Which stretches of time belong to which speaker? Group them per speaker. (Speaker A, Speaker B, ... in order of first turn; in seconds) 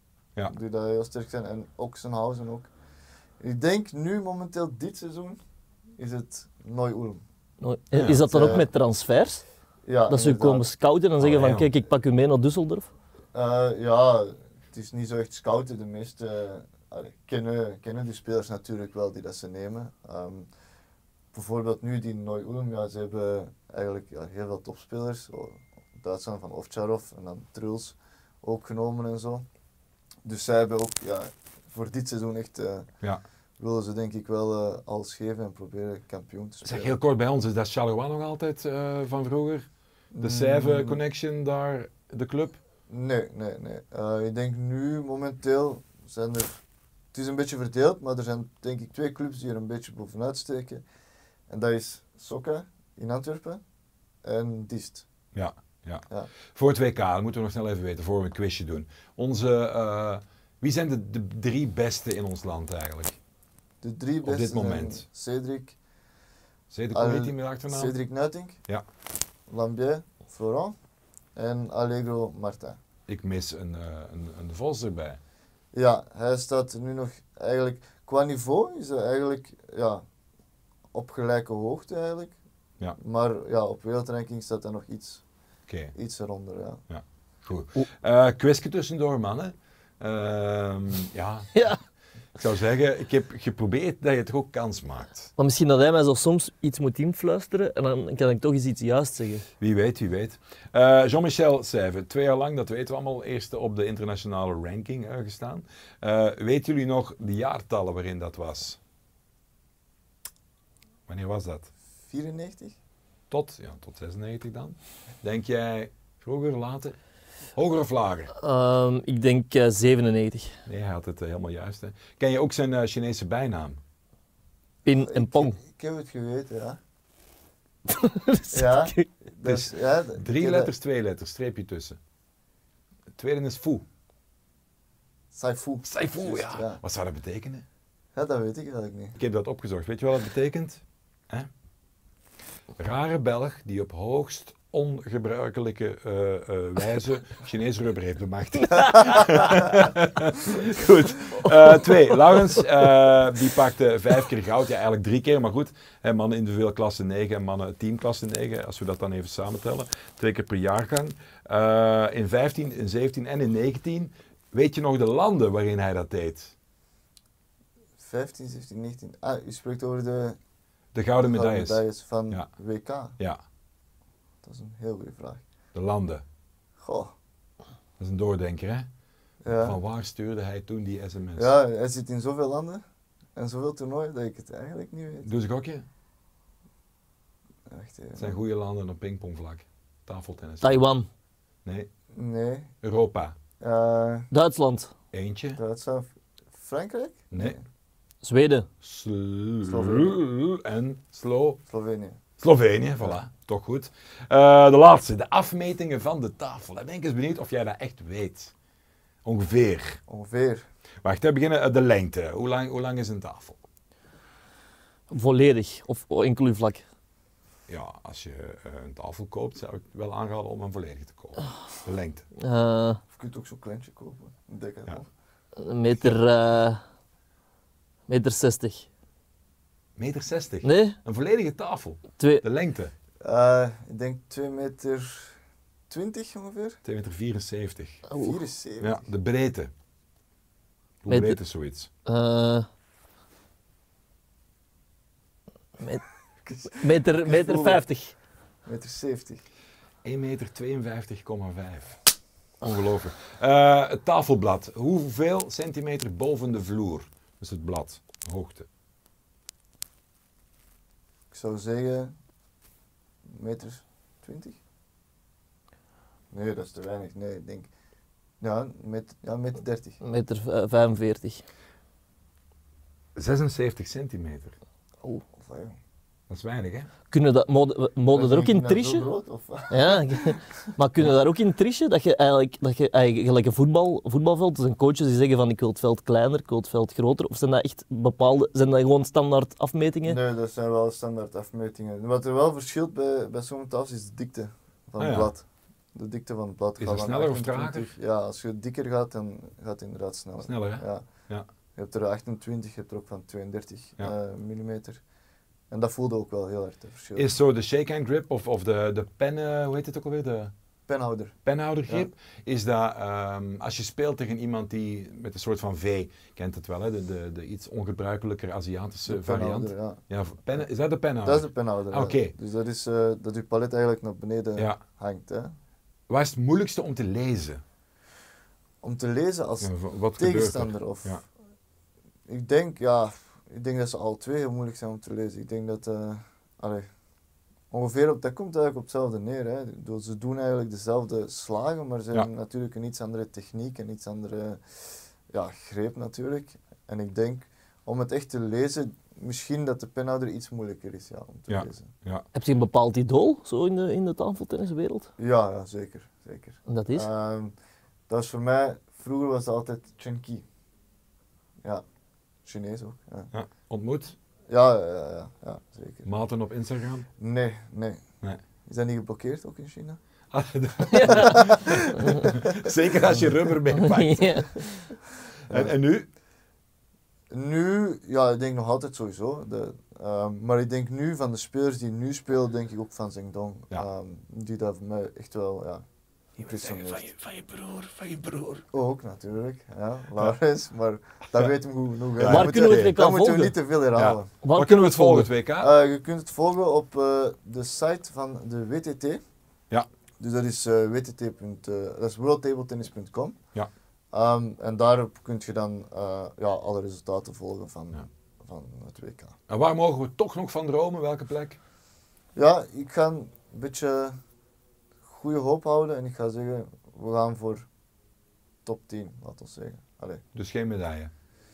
Speaker A: 0.5-2.7, 3.4-5.4, 6.0-7.2, 8.2-8.7, 9.8-10.7, 13.3-20.5, 21.3-29.4, 30.2-32.9, 33.6-36.9, 40.1-41.0, 42.9-46.6, 47.1-50.8, 51.5-53.6, 54.2-55.1, 63.8-65.8, 66.9-68.6, 69.5-70.8, 71.3-72.8, 75.7-80.0, 80.9-82.4, 83.0-85.2, 85.9-86.8, 112.1-112.8, 125.0-126.8, 128.5-130.7, 135.3-136.8, 138.1-139.2, 168.0-170.4, 171.2-173.2, 174.4-175.4, 176.8-177.1, 179.4-179.8, 181.3-182.8, 183.3-185.3, 187.7-188.4, 192.1-192.7, 193.6-194.3, 195.6-197.6, 199.7-200.2, 201.7-202.2, 210.1-210.7, 223.1-225.1, 233.2-235.3, 235.9-236.8, 238.2-239.1, 246.4-247.8, 248.6-249.4, 261.3-262.1, 263.3-264.6, 266.3-267.7, 268.4-270.0, 275.3-275.8, 278.1-280.4, 290.0-301.1, 301.8-305.0, 305.7-307.4, 310.9-312.1, 319.1-320.0, 321.2-325.5, 328.8-331.2, 332.3-336.9, 337.7-351.9, 355.2-357.5, 358.1-360.4, 362.4-363.3, 364.5-366.1, 367.2-368.0, 368.6-370.0, 371.0-372.7, 375.5-375.7, 377.3-385.8, 386.4-387.1, 388.7-394.3, 395.6-399.2, 400.2-403.4, 404.1-409.4, 412.3-414.2, 415.0-417.7, 418.6-420.2
Speaker B: 7.6-9.4, 10.1-12.9, 95.4-99.5, 118.4-120.5, 124.8-125.6, 127.9-129.1, 190.6-191.1, 194.3-194.9, 198.2-198.7, 215.1-216.8, 222.4-223.0, 225.6-226.8, 228.1-228.9, 230.6-231.0, 238.1-238.4, 241.1-241.4, 242.1-242.7, 246.7-248.1, 270.0-271.4, 277.1-279.0, 279.7-290.2, 352.3-355.1, 356.7-357.1, 370.9-372.3, 373.7-374.9, 392.2-393.5, 394.4-395.3
Speaker C: 7.9-8.2, 11.2-11.7, 36.6-39.7, 40.2-42.6, 55.3-63.2, 64.2-65.0, 66.7-67.9, 73.1-75.2, 85.7-85.9, 86.9-91.6, 92.3-95.3, 99.6-108.8, 111.1-111.7, 113.3-117.0, 117.5-118.3, 120.7-123.8, 129.4-132.0, 133.2-133.8, 135.8-137.6, 139.2-141.5, 142.8-166.5, 170.9-172.5, 175.7-176.2, 178.0-178.9, 179.5-181.5, 185.2-185.8, 188.2-190.8, 191.6-191.9, 192.8-193.3, 195.1-195.6, 197.3-197.6, 198.8-201.6, 202.4-208.5, 209.2-210.0, 211.0-213.6, 217.7-222.3, 230.0-232.9, 236.8-238.1, 238.8-239.7, 241.0-241.9, 250.0-252.0, 252.6-258.7, 273.1-274.6, 276.3-276.9, 295.0-295.3, 296.8-297.9, 300.4-301.5, 307.1-310.5, 311.4-322.3, 326.1-327.6, 329.6-331.2, 351.5-352.2, 363.3-364.1, 366.0-367.1, 370.3-374.5, 375.5-376.1, 386.4-388.6, 392.2-393.0, 393.9-395.7, 409.5-411.6, 420.3-421.1